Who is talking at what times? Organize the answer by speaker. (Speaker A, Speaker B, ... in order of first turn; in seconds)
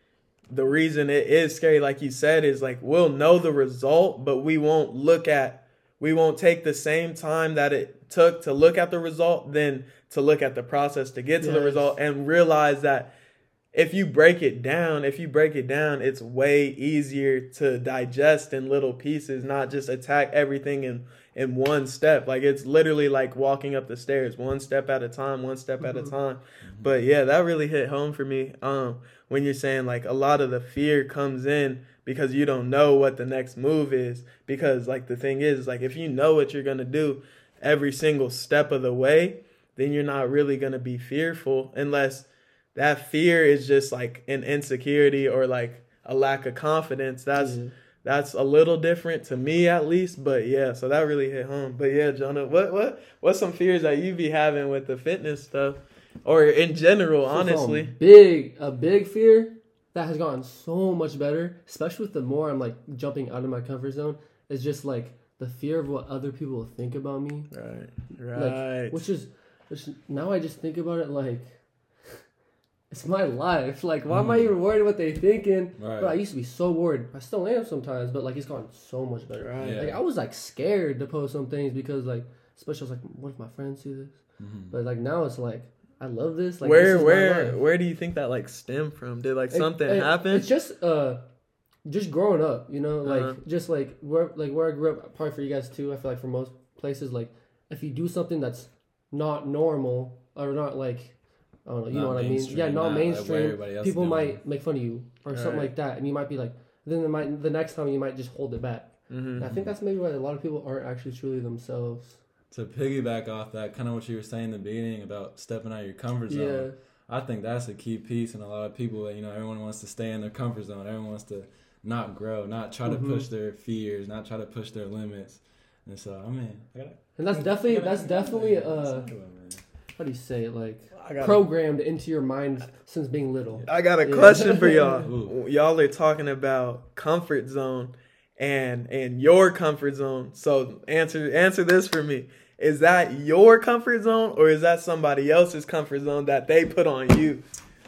Speaker A: 0.5-13.1, 13.7-57.9, 67.5-69.0, 79.4-79.8, 86.6-90.5, 93.0-93.4, 105.3-105.7, 109.1-109.5, 130.9-131.5, 133.7-147.4
Speaker B: 11.4-12.0, 47.3-47.7, 57.2-67.5, 68.3-71.5, 72.9-84.2, 84.7-87.6, 89.5-91.2, 91.8-101.1, 101.7-112.2, 116.3-116.7, 122.8-123.3, 127.2-129.1, 129.9-135.0
Speaker C: 26.6-26.9, 74.1-74.5, 75.8-76.2, 79.6-80.0, 84.4-84.8, 101.9-104.4, 109.4-109.7, 112.5-129.6, 134.9-135.3